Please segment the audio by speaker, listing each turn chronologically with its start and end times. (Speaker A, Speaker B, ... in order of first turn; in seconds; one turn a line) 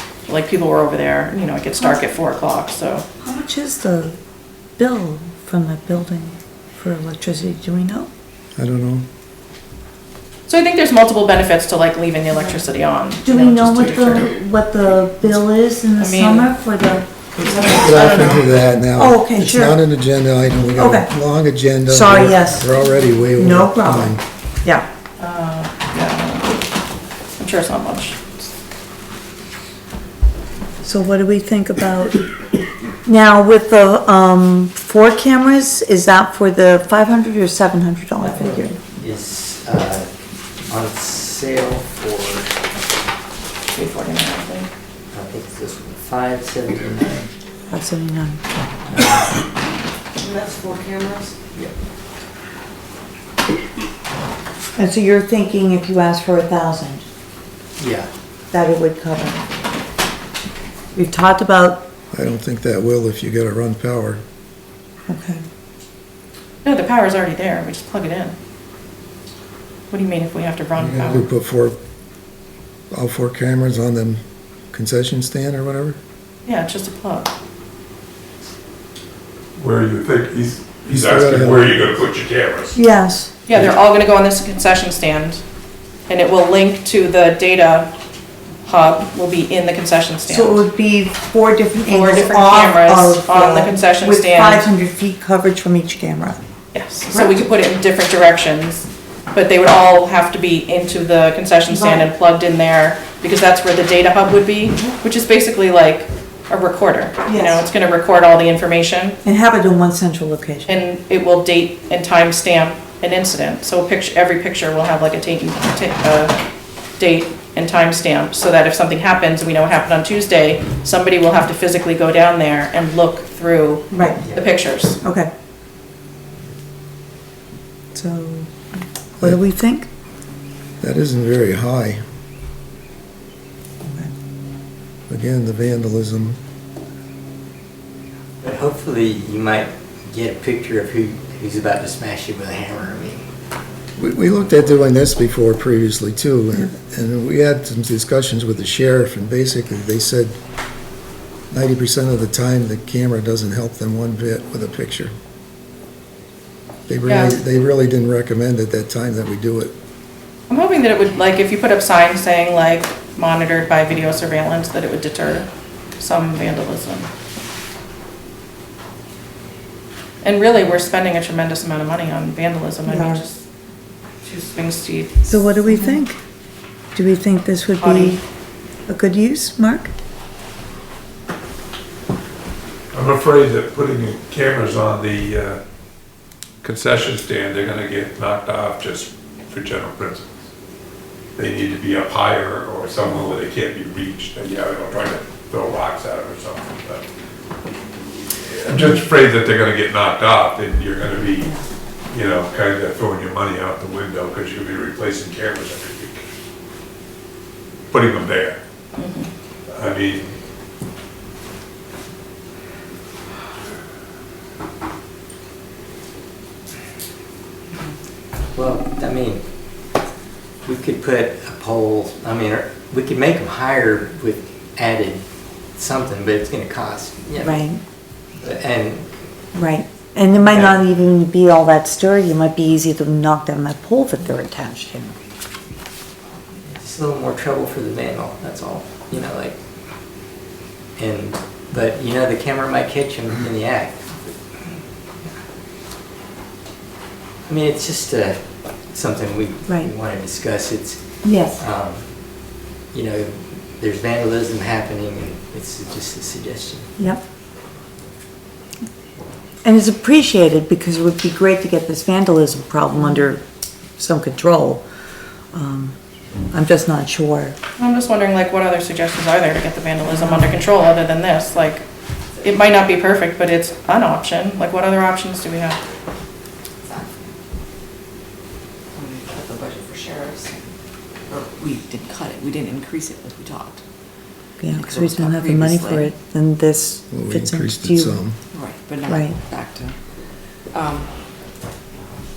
Speaker A: 0.3-3.0
Speaker B: 3.2-4.2
Speaker B: 4.8-8.1
Speaker C: 8.6-9.1
Speaker A: 10.5-14.4
Speaker B: 12.3-12.6
Speaker B: 13.2-18.0
Speaker A: 16.0-16.5
Speaker A: 17.4-18.4
Speaker C: 17.6-24.2
Speaker B: 18.9-19.8
Speaker B: 20.8-21.1
Speaker B: 21.9-22.7
Speaker B: 23.3-24.9
Speaker A: 25.2-26.5
Speaker A: 27.4-28.5
Speaker B: 30.8-32.2
Speaker B: 33.0-38.8
Speaker D: 38.2-40.1
Speaker D: 40.7-42.5
Speaker A: 43.7-44.7
Speaker D: 45.1-47.3
Speaker B: 47.7-48.7
Speaker D: 48.9-49.3
Speaker E: 50.2-51.3
Speaker B: 54.8-57.0
Speaker D: 57.8-58.1
Speaker B: 58.5-59.4
Speaker B: 61.0-61.9
Speaker C: 62.1-64.2
Speaker B: 65.1-65.4
Speaker A: 66.6-68.3
Speaker A: 69.9-71.3
Speaker C: 70.8-71.8
Speaker C: 72.9-74.2
Speaker C: 74.7-76.0
Speaker A: 76.5-77.3
Speaker F: 79.6-82.8
Speaker C: 80.9-82.0
Speaker B: 82.8-83.3
Speaker A: 83.5-85.4
Speaker A: 86.1-87.9
Speaker A: 88.6-90.6
Speaker B: 90.2-96.4
Speaker A: 91.9-94.7
Speaker A: 96.7-109.2
Speaker B: 97.1-97.4
Speaker B: 101.7-102.1
Speaker B: 107.2-107.6
Speaker B: 109.2-110.7
Speaker A: 110.7-116.4
Speaker A: 117.0-125.0
Speaker B: 123.9-124.2
Speaker B: 125.0-125.3
Speaker B: 127.9-128.5
Speaker B: 129.2-129.9
Speaker C: 130.8-132.0
Speaker B: 133.8-134.1
Speaker C: 135.1-136.4
Speaker D: 138.4-143.3
Speaker C: 143.9-150.4
Speaker C: 151.5-155.1
Speaker C: 156.9-159.7
Speaker A: 157.1-157.4
Speaker A: 160.5-167.1
Speaker A: 170.2-173.4
Speaker B: 172.9-173.2
Speaker A: 174.2-176.0
Speaker B: 175.2-176.2
Speaker B: 176.9-178.2
Speaker A: 177.8-178.2
Speaker B: 178.9-179.9
Speaker F: 182.9-185.6
Speaker F: 186.6-190.3
Speaker F: 191.4-197.0
Speaker F: 198.5-201.5
Speaker F: 202.1-206.2
Speaker F: 207.9-208.6
Speaker A: 208.9-209.3
Speaker F: 209.7-210.4
Speaker D: 218.5-219.4
Speaker D: 220.6-225.2
Speaker D: 225.8-227.7
Speaker B: 227.4-227.8
Speaker D: 228.4-229.1
Speaker B: 229.5-235.1
Speaker D: 230.4-230.8
Speaker D: 236.6-239.6
Speaker D: 241.0-244.1
Speaker D: 247.5-248.4
Speaker D: 248.9-251.0
Speaker B: 251.2-251.6
Speaker D: 251.5-252.1
Speaker D: 252.9-256.9
Speaker B: 259.6-263.4
Speaker B: 264.0-264.8
Speaker B: 265.5-265.9
Speaker B: 266.5-267.6
Speaker A: 267.8-271.8
Speaker B: 270.1-270.6
Speaker A: 272.4-275.8
Speaker E: 276.9-277.2
Speaker E: 278.9-280.7
Speaker E: 281.3-283.8
Speaker B: 284.6-288.2
Speaker E: 284.7-286.1
Speaker C: 287.1-288.4
Speaker E: 288.5-290.0
Speaker B: 289.0-289.4
Speaker E: 290.7-291.1